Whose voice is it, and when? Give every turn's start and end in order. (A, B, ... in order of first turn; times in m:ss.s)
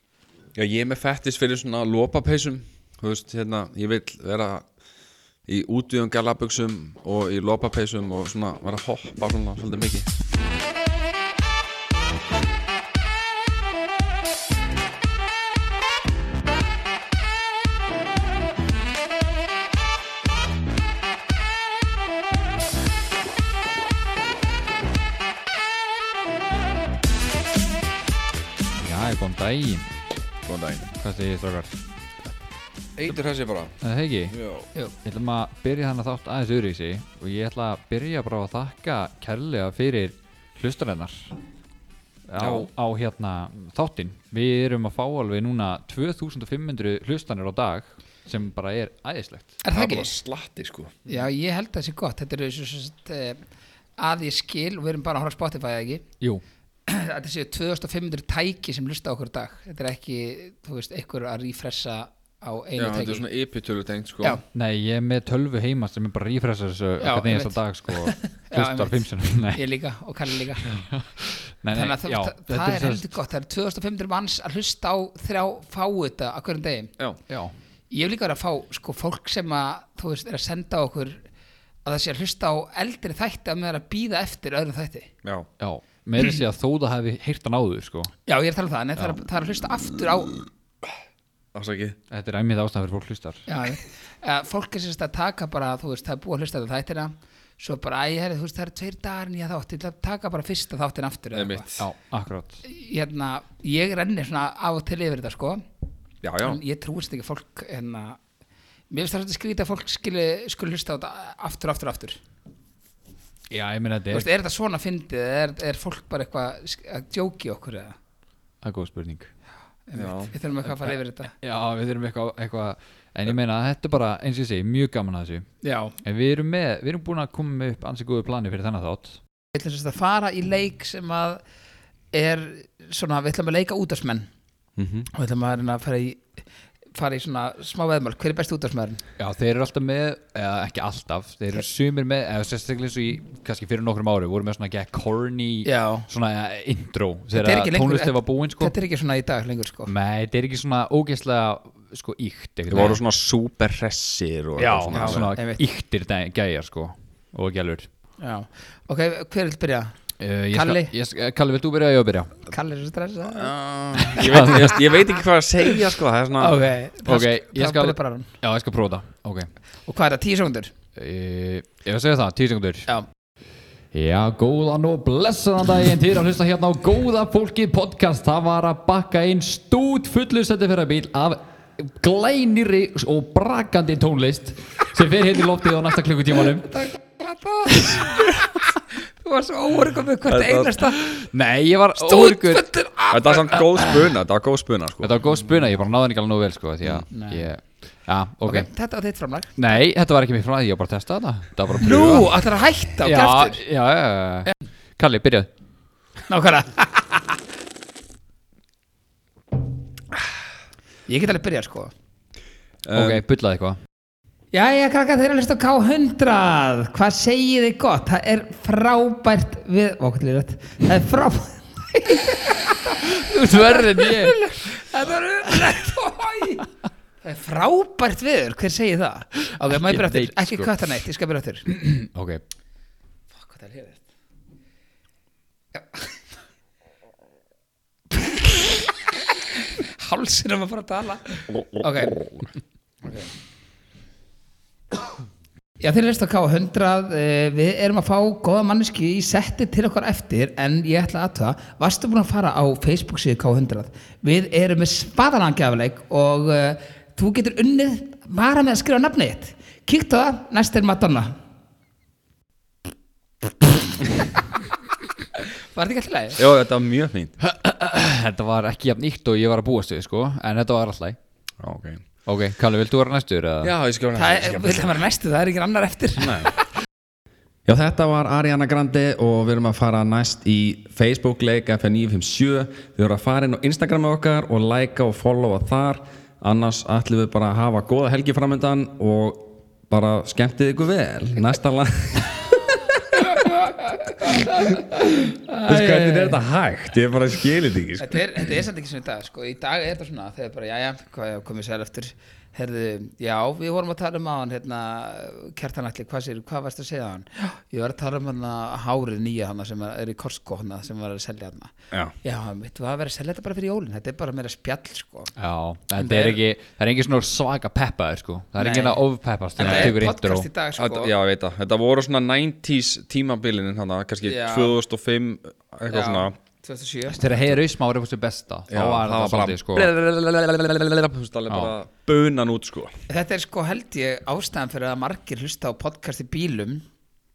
0:00.5-0:04.7 A
0:05.5-0:10.1 A
0:28.8-0:29.8 B
0:30.4-0:30.9 A
0:31.0-0:31.8 B
0:33.0-0:33.8 A
0:33.8-0:34.4 B
0:34.3-0:34.7 A
0:35.0-0:41.3 B
0:42.3-0:49.6 B
0:42.4-0:42.7 A
0:49.6-0:50.1 C
0:49.7-0:51.2 A
0:51.1-0:53.4 C
0:54.0-0:56.1 C
0:56.9-1:03.2 C
1:02.8-1:04.4 A
1:04.5-1:09.6 B
1:07.0-1:10.7 C
1:10.7-1:13.1 B
1:11.7-1:16.9 C
1:17.3-1:17.5 B
1:17.9-1:21.3 C
1:21.8-1:25.1 C
1:25.2-1:25.5 A
1:25.6-1:28.1 B
1:28.3-1:30.4 C
1:31.5-1:32.0 A
1:32.1-1:33.4 B
1:33.5-1:41.7 C
1:41.3-1:41.8 A
1:41.8-1:42.6 B
1:42.6-1:45.6 C
1:46.2-1:46.6 A
1:46.4-1:48.2 C
1:48.9-1:52.2 C
1:53.5-1:54.3 B
1:54.1-1:58.0 C
1:58.6-1:59.3 B
1:59.9-2:01.3 C
2:00.0-2:00.3 A
2:00.8-2:05.5 B
2:05.6-2:06.0 C
2:06.0-2:09.2 B
2:09.5-2:11.4 C
2:12.1-2:14.3 C
2:14.8-2:15.1 A
2:15.1-2:16.4 C
2:16.9-2:19.0 C
2:19.2-2:28.7 B
2:25.6-2:26.1 C
2:27.3-2:29.9 C
2:29.9-2:33.0 B
2:32.7-2:35.3 A
2:34.6-2:37.9 B
2:34.9-2:35.6 C
2:38.2-2:40.0 C
2:40.2-2:42.4 B
2:40.5-2:40.9 C
2:42.5-2:43.5 C
2:43.3-2:46.6 A
2:44.0-2:44.7 B
2:44.1-2:44.7 C
2:46.4-2:48.3 C
2:47.0-2:49.5 B
2:49.8-2:50.7 C
2:50.9-2:52.9 B
2:53.9-3:06.7 B
3:06.7-3:08.5 C
3:09.2-3:11.0 C
3:10.2-3:10.7 A
3:11.0-3:12.6 B
3:12.0-3:13.7 C
3:13.1-3:15.3 A
3:15.0-3:18.7 B
3:17.1-3:17.5 C
3:18.4-3:19.6 C
3:19.6-3:22.3 B
3:21.8-3:23.6 C
3:23.0-3:25.5 B
3:26.3-3:27.4 C
3:31.1-3:31.9 C
3:32.8-3:33.2 A
3:32.9-3:33.8 B
3:34.5-3:46.7 C
3:43.0-3:44.4 B
3:47.2-3:51.7 C
3:49.7-3:50.7 B
3:51.7-3:52.4 B
3:53.3-3:54.0 C
3:55.7-3:56.1 C
3:58.1-4:02.2 C
4:01.8-4:02.4 A
4:03.0-4:03.3 C
4:05.8-4:21.4 C
4:25.7-4:26.4 C
4:26.4-4:27.4 A
4:27.4-4:31.2 B
4:31.6-4:32.0 A
4:32.2-4:33.7 B
4:33.6-4:35.0 A
4:34.1-4:36.5 C
4:36.2-4:36.5 A
4:37.6-4:52.6 A
4:53.4-4:56.4 C
4:55.6-4:58.5 A
4:58.0-5:15.3 C
5:15.4-5:20.5 B
5:16.0-5:16.4 C
5:18.6-5:19.0 C
5:19.6-5:21.1 C
5:19.6-5:20.0 A
5:20.8-5:26.4 A
5:24.2-5:24.8 C
5:25.9-5:27.4 C
5:27.1-5:29.9 B
5:28.7-5:33.0 A
5:33.1-5:36.8 C